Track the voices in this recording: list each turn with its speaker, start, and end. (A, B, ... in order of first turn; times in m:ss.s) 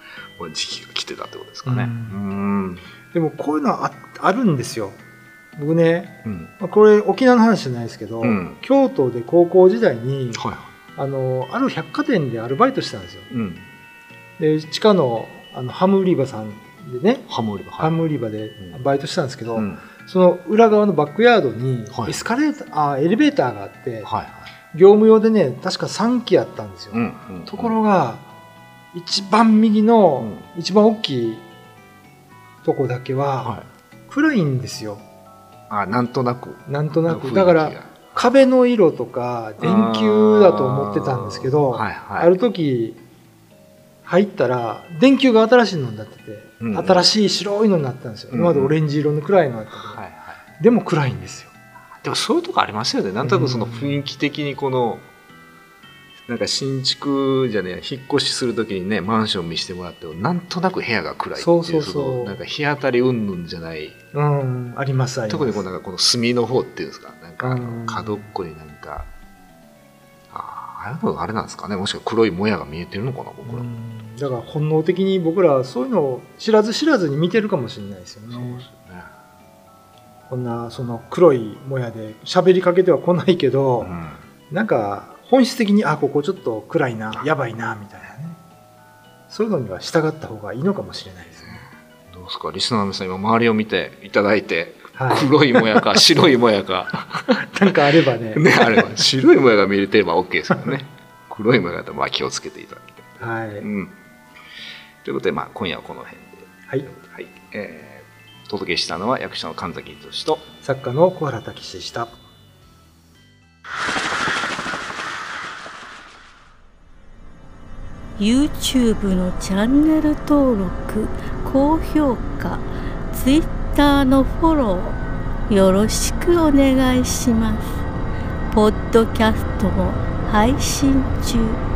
0:00.4-0:02.9 A
0:01.6-0:02.2 B
0:03.1-0:05.0 B
0:05.6-0:10.4 B
0:06.2-0:06.5 A
0:08.2-0:08.6 A
0:10.3-0:10.7 A
0:11.0-0:13.3 B
0:13.3-0:13.7 A
0:14.4-0:24.1 B
0:17.3-0:18.0 A
0:19.5-0:19.8 A
0:24.0-0:24.5 A
0:24.7-0:28.3 B
0:26.9-0:27.8 A
0:28.9-0:31.4 B
0:30.2-0:30.4 A
0:32.6-0:33.6 B
0:34.1-0:35.0 B
0:35.7-0:38.2 A
0:36.6-0:43.0 B
0:39.6-0:42.3 A
0:44.0-0:50.0 B
0:46.6-0:47.1 A
0:48.3-0:48.8 A
0:49.9-0:50.4 A
0:50.6-0:51.5 B
0:52.0-0:55.0 A
0:53.2-0:54.0 B
0:56.3-1:04.0 A
1:01.4-1:02.4 B
1:04.1-1:05.6 B
1:05.3-1:09.1 A
1:07.4-1:08.3 B
1:10.3-1:13.7 A
1:13.4-1:18.6 B
1:18.3-1:19.1 A
1:20.3-1:23.9 B
1:23.8-1:24.2 A
1:24.5-1:28.4 B
1:29.3-1:31.6 B
1:32.1-1:44.0 A
1:34.9-1:36.0 B
1:37.3-1:38.9 B
1:43.2-1:43.7 B
1:45.0-1:50.5 A
1:50.6-1:52.1 B
1:58.2-2:07.8 C
2:08.5-2:11.6 C